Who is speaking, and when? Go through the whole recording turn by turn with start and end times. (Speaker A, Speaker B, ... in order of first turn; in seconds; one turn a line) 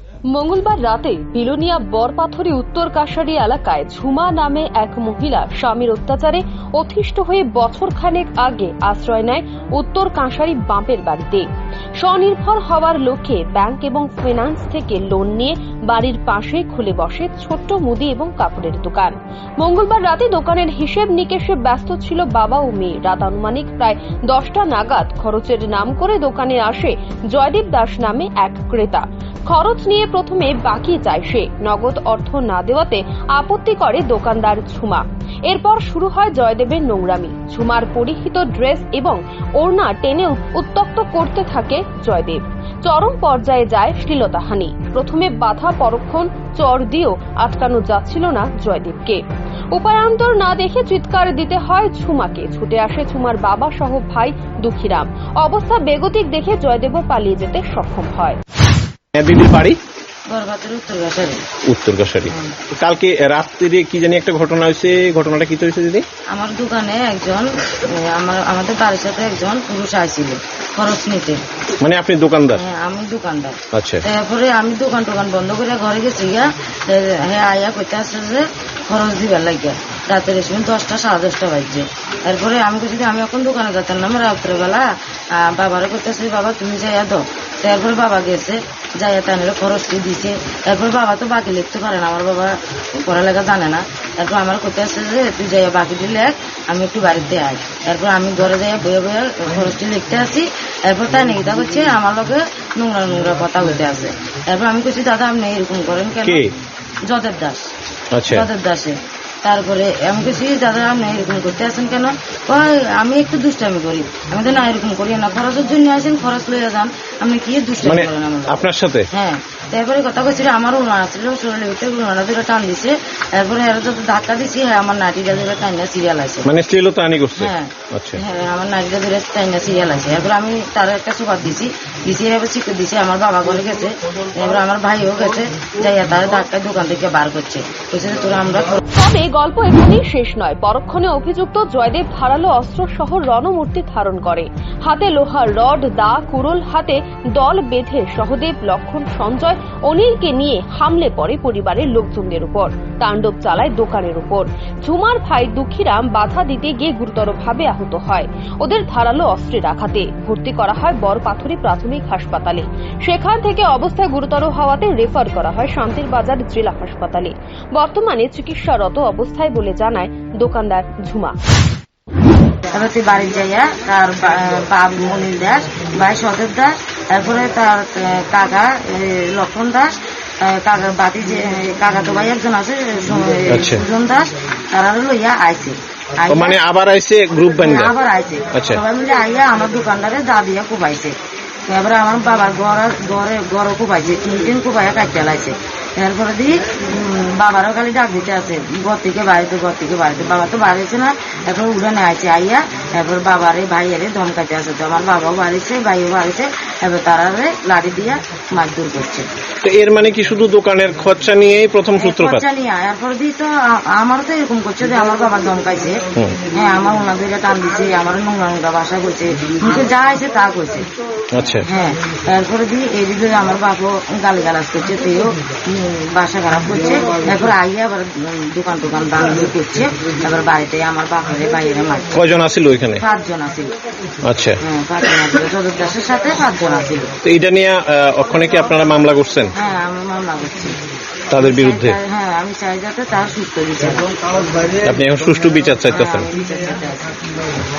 Speaker A: 0.3-11.4
Speaker A: 12.0-49.2
Speaker A: 49.7-58.4
Speaker B: 59.1-59.8
Speaker C: 60.3-61.4
Speaker B: 61.7-66.0
Speaker C: 62.3-62.5
Speaker C: 66.3-71.4
Speaker B: 71.8-72.6
Speaker C: 72.5-106.4
Speaker B: 73.7-74.0
Speaker B: 106.2-106.5
Speaker C: 107.1-107.7
Speaker B: 108.1-108.5
Speaker C: 108.3-126.5
Speaker B: 117.8-119.1
Speaker B: 126.5-128.2
Speaker C: 127.4-138.8
Speaker A: 138.9-171.3
Speaker C: 172.7-186.6
Speaker B: 183.5-183.8
Speaker B: 186.3-187.9
Speaker C: 187.6-191.1
Speaker B: 188.5-188.8
Speaker C: 191.7-209.2
Speaker B: 209.6-212.4
Speaker C: 211.9-220.9
Speaker B: 216.1-216.5
Speaker B: 221.3-221.6
Speaker C: 221.6-232.1
Speaker B: 232.1-233.0
Speaker C: 233.0-233.7
Speaker B: 234.2-234.6
Speaker C: 234.6-237.1
Speaker B: 237.2-239.5
Speaker C: 239.5-240.7
Speaker B: 241.3-242.0
Speaker C: 241.3-244.7
Speaker B: 244.8-246.3
Speaker C: 245.8-247.2